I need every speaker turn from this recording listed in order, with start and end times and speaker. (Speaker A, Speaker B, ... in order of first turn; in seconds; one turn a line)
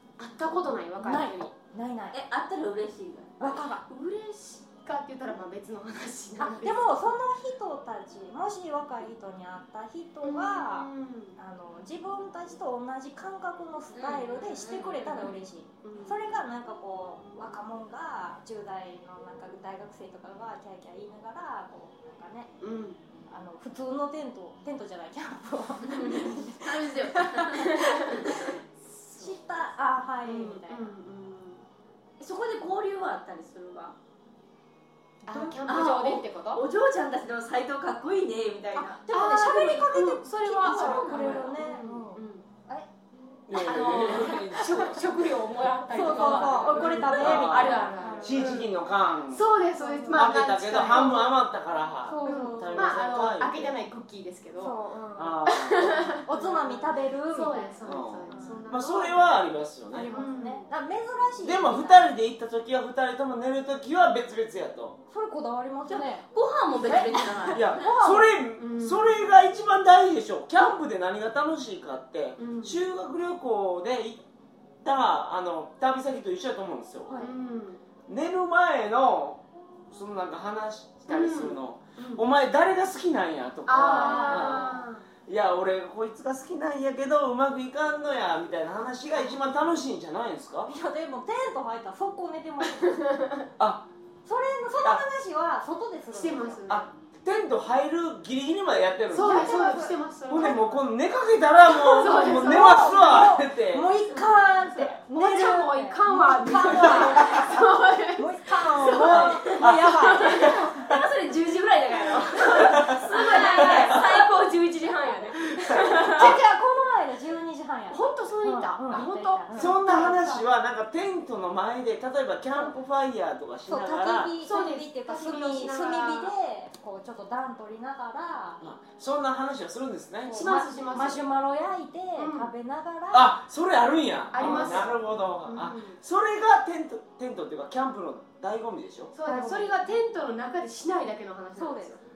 Speaker A: 0.2-1.5
Speaker B: 1.0-2.2
Speaker C: 2.1-3.7
Speaker B: 3.4-3.8
Speaker A: 3.8-7.0
Speaker B: 6.4-22.5
Speaker A: 10.2-11.4
Speaker C: 13.9-15.3
Speaker A: 15.0-16.2
Speaker A: 22.6-23.0
Speaker B: 23.3-28.5
Speaker A: 25.9-26.5
Speaker C: 25.9-28.5
Speaker A: 27.7-29.4
Speaker B: 29.1-30.9
Speaker A: 30.2-31.6
Speaker C: 32.2-33.9
Speaker A: 35.2-36.6
Speaker B: 35.3-35.6
Speaker C: 35.6-39.8
Speaker A: 38.8-42.4
Speaker B: 39.0-42.9
Speaker C: 40.6-41.5
Speaker D: 43.5-45.0
Speaker A: 43.5-48.7
Speaker B: 43.6-44.5
Speaker B: 45.9-48.6
Speaker D: 46.7-49.5
Speaker A: 49.3-51.4
Speaker B: 49.8-50.3
Speaker D: 50.1-53.7
Speaker B: 52.0-53.0
Speaker A: 52.2-54.8
Speaker B: 54.6-55.4
Speaker D: 55.1-56.2
Speaker A: 55.5-59.4
Speaker B: 56.2-58.6
Speaker D: 57.8-60.3
Speaker B: 59.9-62.1
Speaker A: 60.1-60.7
Speaker D: 61.4-65.0
Speaker B: 65.1-66.2
Speaker C: 65.9-67.9
Speaker B: 66.8-68.3
Speaker D: 67.5-74.2
Speaker A: 68.5-69.1
Speaker A: 72.4-72.8
Speaker D: 74.8-77.2
Speaker A: 77.2-77.8
Speaker D: 78.1-90.7
Speaker A: 81.1-82.2
Speaker A: 83.7-85.0
Speaker B: 83.7-84.8
Speaker B: 90.7-93.0
Speaker A: 92.8-93.5
Speaker D: 93.6-93.9
Speaker B: 94.2-96.6
Speaker A: 96.1-96.9
Speaker D: 96.7-103.9
Speaker A: 99.1-100.8
Speaker B: 99.1-100.5
Speaker A: 101.7-103.3
Speaker B: 101.8-110.9
Speaker A: 104.1-110.6
Speaker D: 109.0-110.9
Speaker C: 110.2-114.3
Speaker A: 112.3-116.3
Speaker D: 112.5-114.0
Speaker D: 115.6-116.3
Speaker B: 116.1-119.8
Speaker A: 117.9-120.4
Speaker D: 119.5-124.4
Speaker B: 123.7-128.6
Speaker A: 124.4-126.3
Speaker D: 128.6-130.6
Speaker B: 130.3-133.4
Speaker A: 130.3-131.3
Speaker A: 132.2-132.5
Speaker D: 133.1-139.1
Speaker A: 134.3-136.0
Speaker B: 134.4-134.9
Speaker A: 139.1-142.0
Speaker B: 139.2-139.9
Speaker B: 141.6-141.9